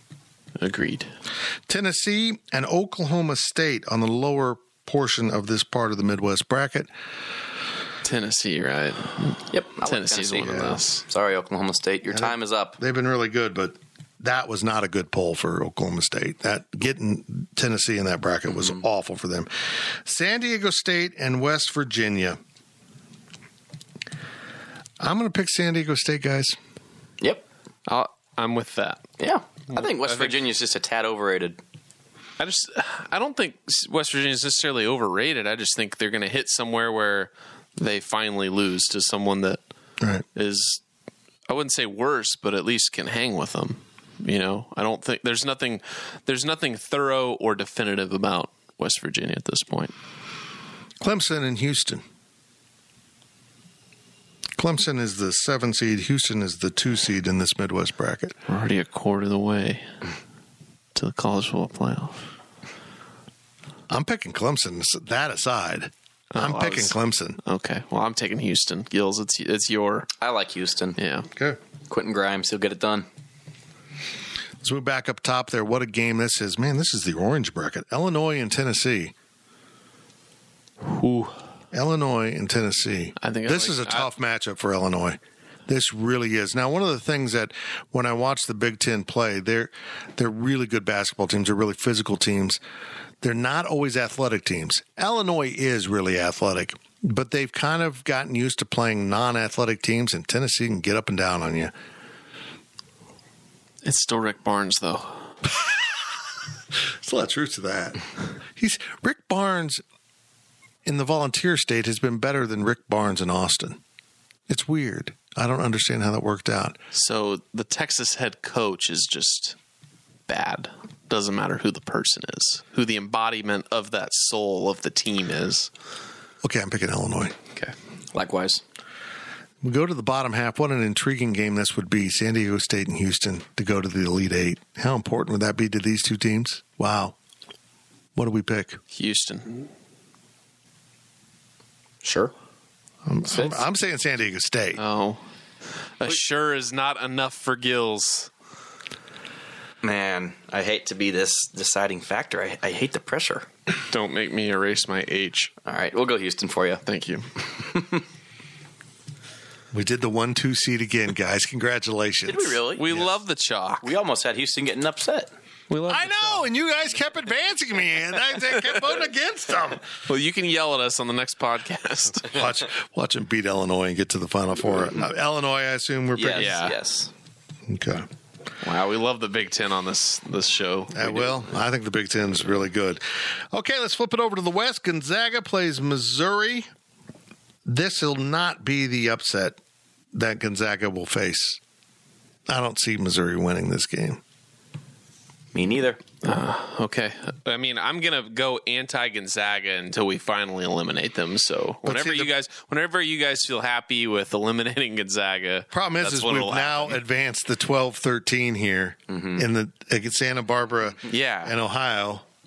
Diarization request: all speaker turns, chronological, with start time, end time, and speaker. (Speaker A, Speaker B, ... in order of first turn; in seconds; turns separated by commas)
Speaker A: 0.6-1.1, Speaker B: 1.7-6.9, Speaker A: 8.0-11.0, Speaker C: 9.5-12.8, Speaker B: 10.4-10.8, Speaker B: 12.1-22.4, Speaker C: 18.5-18.8, Speaker B: 25.0-26.6, Speaker A: 27.9-29.1, Speaker C: 29.2-31.6, Speaker A: 29.7-30.4, Speaker A: 32.4-39.6, Speaker A: 40.3-40.8, Speaker A: 41.5-49.9, Speaker B: 51.0-52.0, Speaker B: 54.6-58.4, Speaker A: 58.5-59.9, Speaker A: 60.9-62.2, Speaker B: 63.9-67.4, Speaker A: 66.3-70.1, Speaker C: 70.2-71.0, Speaker A: 71.0-71.3, Speaker B: 71.3-71.6, Speaker C: 71.9-73.0, Speaker B: 74.6-79.1, Speaker A: 80.8-81.4, Speaker B: 81.7-92.6, Speaker A: 83.2-84.1, Speaker B: 93.2-101.7, Speaker A: 103.8-105.3, Speaker B: 105.5-105.9, Speaker B: 107.0-108.0, Speaker B: 108.5-109.8, Speaker B: 110.8-113.8, Speaker B: 114.5-116.8, Speaker A: 116.9-119.5, Speaker A: 120.3-125.7, Speaker B: 126.4-127.3, Speaker C: 128.1-128.6, Speaker B: 129.6-137.2, Speaker B: 138.1-138.8, Speaker A: 138.9-139.7, Speaker C: 142.0-142.3, Speaker B: 143.0-144.8, Speaker A: 144.8-145.2, Speaker A: 146.0-148.3, Speaker C: 149.8-153.5, Speaker A: 153.9-155.5, Speaker C: 155.6-156.8, Speaker A: 156.8-157.3, Speaker C: 157.6-158.0, Speaker B: 159.7-163.1, Speaker C: 162.3-162.8, Speaker A: 162.8-163.9, Speaker C: 163.8-165.3, Speaker A: 165.7-166.5, Speaker B: 165.8-169.9, Speaker A: 170.1-172.4, Speaker B: 172.2-176.6, Speaker C: 176.1-177.1, Speaker A: 176.3-176.8, Speaker B: 177.7-178.1, Speaker A: 178.6-181.5, Speaker B: 180.9-186.7, Speaker B: 187.7-189.6, Speaker B: 190.1-191.6, Speaker B: 192.5-194.2, Speaker C: 195.5-196.0, Speaker A: 196.2-207.0, Speaker B: 201.8-202.3, Speaker B: 205.7-212.2, Speaker C: 209.1-209.4, Speaker A: 211.1-211.5